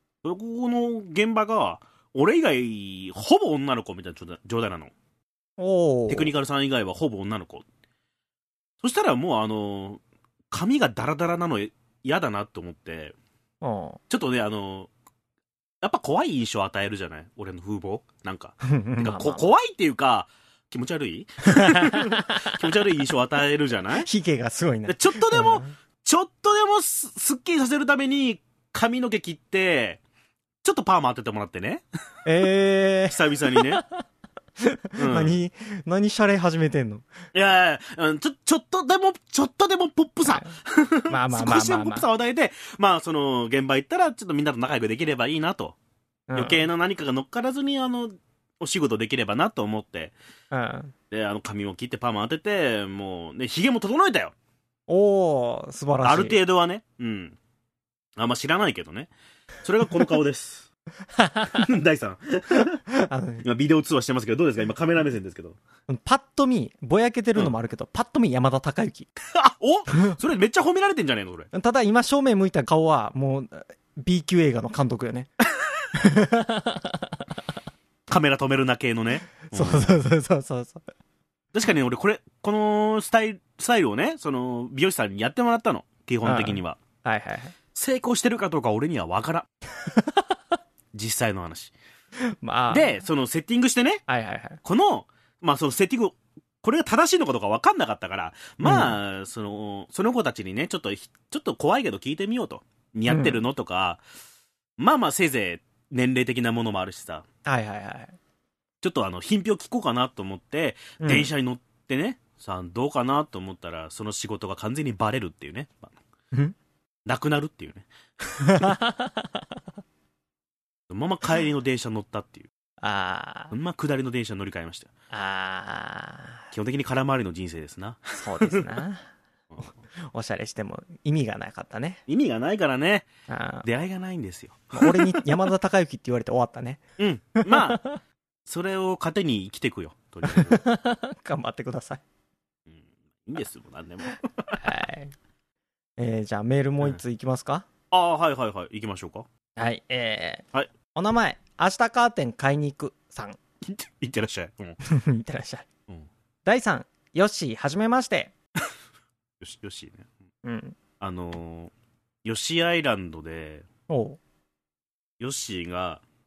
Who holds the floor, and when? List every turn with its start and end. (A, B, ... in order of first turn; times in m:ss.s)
0:00.2-0:04.9 A
0:05.6-0:06.3 B
0:06.1-0:07.6 A
0:08.8-0:13.1 A
0:13.6-0:14.0 B
0:14.1-0:14.9 A
0:15.8-0:24.1 A
0:18.6-0:19.5 B
0:21.5-0:22.6 B
0:24.0-0:25.7 B
0:24.9-0:30.0 A
0:30.6-0:31.8 A
0:32.2-0:34.0 B
0:33.1-0:33.8 A
0:34.6-0:37.0 B
0:35.0-0:35.4 A
0:37.3-0:45.8 A
0:40.2-0:40.6 B
0:41.1-0:42.1 B
0:46.3-0:46.6 B
0:46.3-0:50.1 A
0:50.5-0:50.9 B
0:51.1-0:54.3 A
0:54.9-0:56.4 B
0:56.0-0:57.4 A
0:58.2-0:59.1 A
0:59.6-1:00.7 A
1:01.2-1:01.6 B
1:01.6-1:02.8 A
1:02.9-1:03.4 B
1:03.4-1:05.6 A
1:05.9-1:09.1 B
1:09.2-1:11.5 A
1:11.5-1:15.3 B
1:15.9-1:17.1 B
1:18.1-1:19.9 A
1:19.4-1:20.8 B
1:21.5-1:26.8 A
1:26.2-1:27.5 B
1:27.7-1:29.5 A
1:30.9-1:31.7 A
1:32.4-1:33.0 B
1:32.7-1:34.0 A
1:34.1-1:34.6 B
1:34.6-1:44.0 A
1:38.6-1:38.9 B
1:43.1-1:43.4 B
1:44.8-1:47.2 A
1:47.4-1:48.2 B
1:48.8-1:56.0 A
1:51.0-1:51.3 B
1:57.0-1:58.7 A
1:58.4-1:59.2 B
2:00.9-2:02.5 A
2:02.8-2:03.5 B
2:03.5-2:04.9 A
2:05.1-2:06.4 B
2:06.5-2:08.8 A
2:08.2-2:09.0 B
2:10.0-2:12.0 B
2:12.1-2:13.1 A
2:13.3-2:13.6 B
2:13.6-2:15.4 A
2:14.7-2:16.8 B
2:17.0-2:17.8 A
2:17.4-2:18.0 B
2:18.4-2:20.6 A
2:20.2-2:22.0 B
2:22.7-2:24.6 A
2:24.6-2:25.1 B
2:26.0-2:27.7 B
2:27.9-2:29.3 A
2:29.6-2:33.4 B
2:33.6-2:34.8 A
2:34.8-2:35.7 B
2:36.4-2:38.3 B
2:39.4-2:40.1 A
2:40.4-2:40.8 B
2:41.0-2:41.7 A
2:42.2-2:43.6 A
2:43.9-2:44.2 B
2:45.2-2:46.0 A